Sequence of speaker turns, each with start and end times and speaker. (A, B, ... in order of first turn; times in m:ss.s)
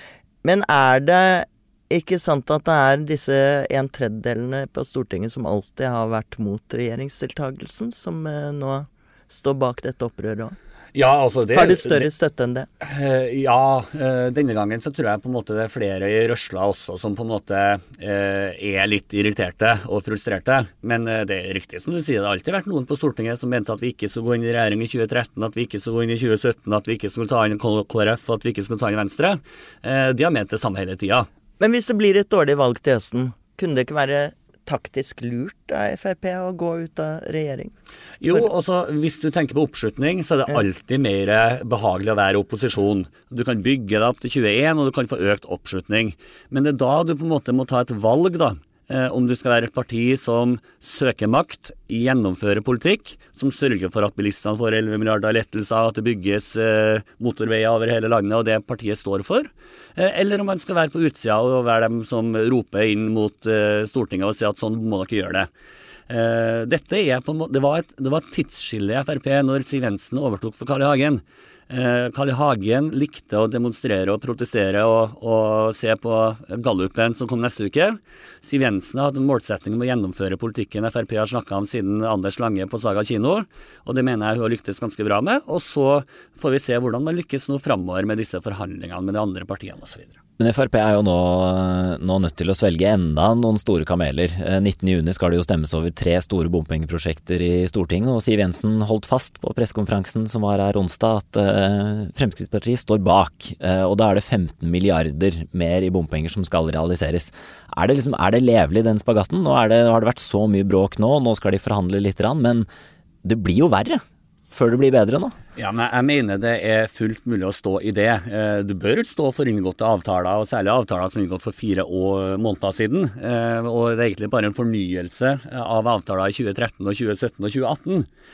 0:00.4-0:10.5 A
0:10.9-0:12.1 B
0:11.5-0:12.7 A
0:12.8-0:31.3 B
0:31.6-0:37.7 A
0:38.2-1:05.5 B
1:06.1-1:30.2 B
1:30.4-1:52.7 C
1:53.2-1:55.3 C
1:55.6-2:08.1 B